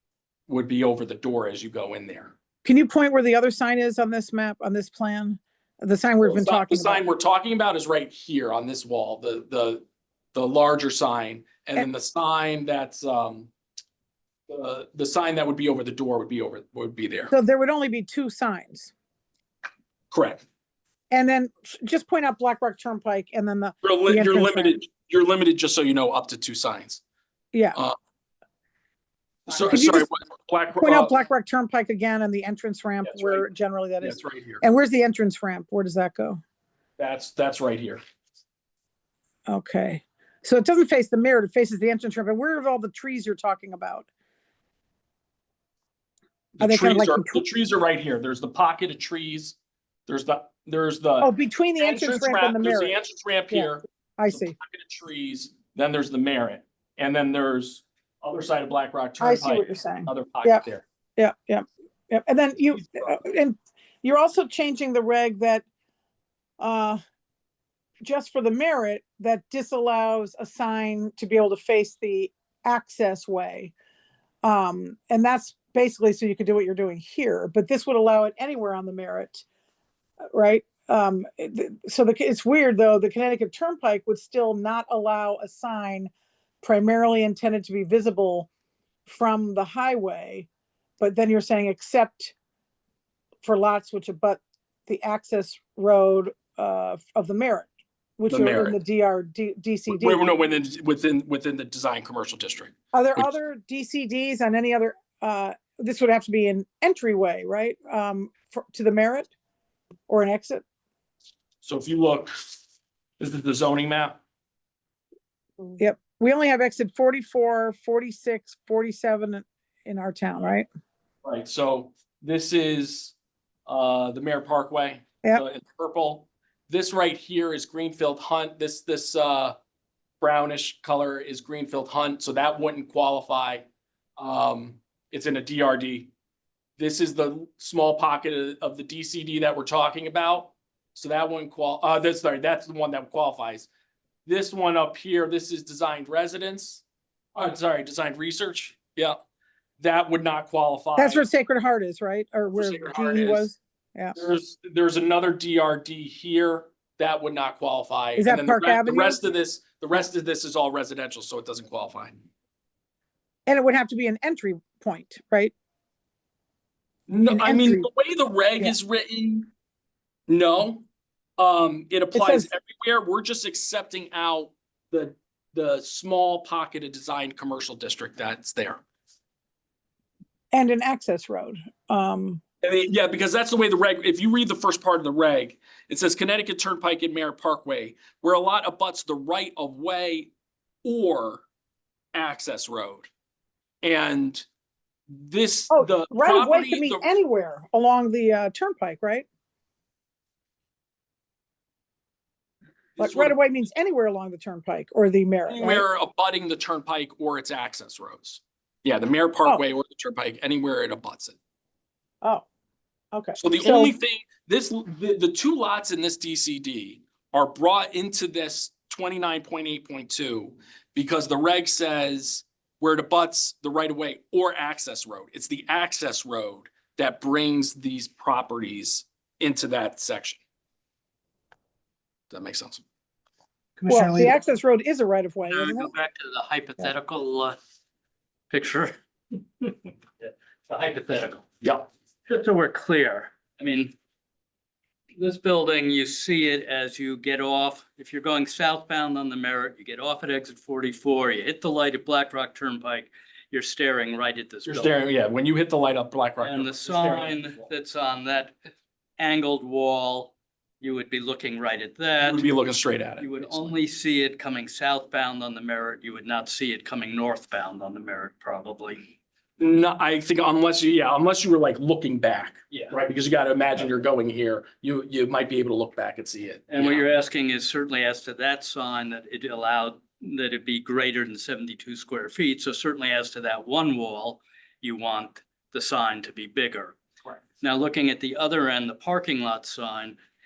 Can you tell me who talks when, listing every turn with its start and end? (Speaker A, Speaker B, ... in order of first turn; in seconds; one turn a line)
Speaker A: 0.5-2.3
Speaker B: 2.6-7.0
Speaker A: 6.2-13.5
Speaker A: 14.5-17.3
Speaker B: 17.3-18.9
Speaker A: 20.1-20.4
Speaker B: 21.1-24.8
Speaker A: 23.8-27.0
Speaker B: 27.5-27.8
Speaker A: 29.5-31.1
Speaker B: 29.6-30.1
Speaker B: 30.8-36.4
Speaker A: 33.0-33.5
Speaker A: 34.0-34.6
Speaker A: 37.0-38.0
Speaker B: 39.5-44.1
Speaker A: 46.6-60.8
Speaker B: 46.6-47.4
Speaker B: 51.2-53.0
Speaker B: 53.5-54.5
Speaker B: 59.2-60.6
Speaker B: 61.2-65.6
Speaker A: 62.8-63.2
Speaker B: 66.6-67.0
Speaker B: 68.0-73.7
Speaker B: 74.4-79.4
Speaker B: 80.3-86.1
Speaker B: 86.6-88.5
Speaker B: 89.0-90.5
Speaker B: 91.0-92.3
Speaker B: 93.4-100.3
Speaker A: 98.3-98.8
Speaker A: 99.9-103.3
Speaker B: 102.9-109.3
Speaker B: 110.1-110.6
Speaker A: 111.6-112.5
Speaker A: 113.2-114.2
Speaker B: 115.8-120.7
Speaker A: 121.2-123.1
Speaker A: 123.7-129.6
Speaker A: 130.2-133.7
Speaker A: 134.2-136.1
Speaker A: 136.8-143.7
Speaker A: 144.2-146.8
Speaker A: 147.3-149.2
Speaker A: 149.8-151.2
Speaker B: 150.9-154.2
Speaker A: 152.5-153.5
Speaker A: 154.1-162.2
Speaker B: 158.2-159.2
Speaker B: 163.4-165.5
Speaker A: 167.1-169.5
Speaker B: 167.3-167.9
Speaker A: 170.3-170.8
Speaker A: 171.4-178.8
Speaker B: 172.1-172.5
Speaker B: 180.5-182.4
Speaker A: 182.6-190.3
Speaker A: 190.8-191.4
Speaker A: 192.1-193.1
Speaker A: 193.8-194.4
Speaker A: 195.1-197.1
Speaker B: 195.7-199.2
Speaker A: 202.9-203.4
Speaker B: 203.0-205.8
Speaker A: 205.5-211.4
Speaker B: 213.1-213.9
Speaker A: 213.4-230.4
Speaker A: 232.3-232.8
Speaker C: 233.8-234.4
Speaker B: 233.9-235.9
Speaker C: 235.4-237.6
Speaker C: 238.5-238.9
Speaker C: 239.6-241.5
Speaker C: 242.3-243.9
Speaker C: 245.2-254.9
Speaker A: 254.7-257.6
Speaker C: 256.4-258.5
Speaker C: 259.2-262.5
Speaker A: 262.2-263.8
Speaker C: 263.2-269.0
Speaker A: 269.6-277.1
Speaker C: 276.7-287.0
Speaker C: 287.6-290.2